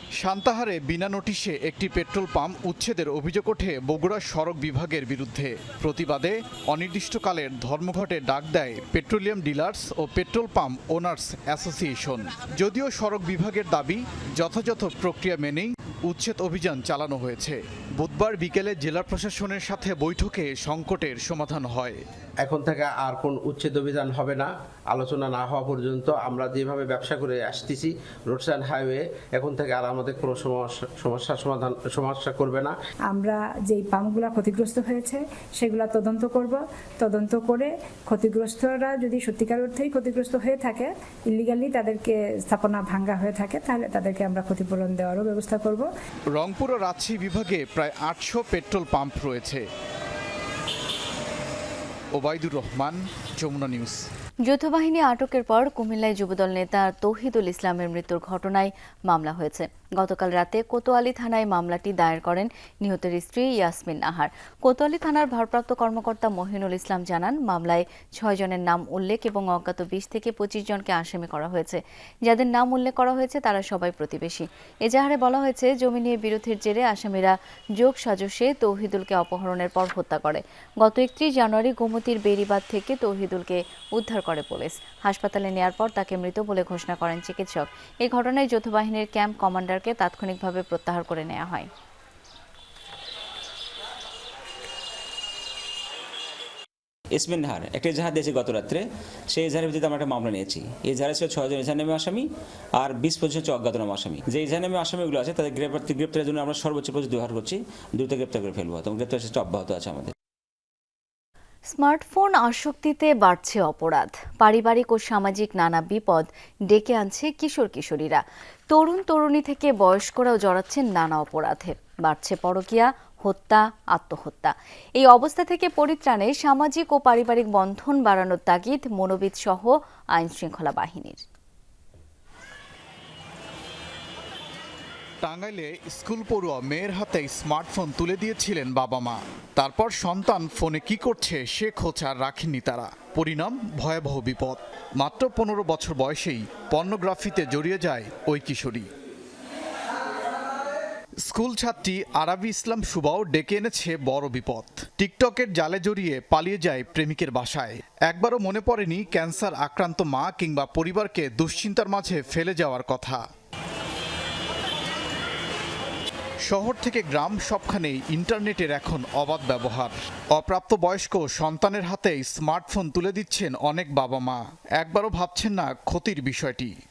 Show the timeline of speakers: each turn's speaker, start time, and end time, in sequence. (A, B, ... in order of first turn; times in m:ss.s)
0:00.2-0:22.0 A
0:22.4-0:32.7 B
0:33.1-0:45.9 C
0:46.3-0:49.6 A
0:52.1-0:54.0 A
0:54.4-1:31.7 D
1:37.1-1:42.2 E
1:42.8-1:50.1 E
1:51.7-2:11.2 D
2:15.2-2:28.9 A
2:31.2-2:43.2 A
2:46.4-2:56.8 A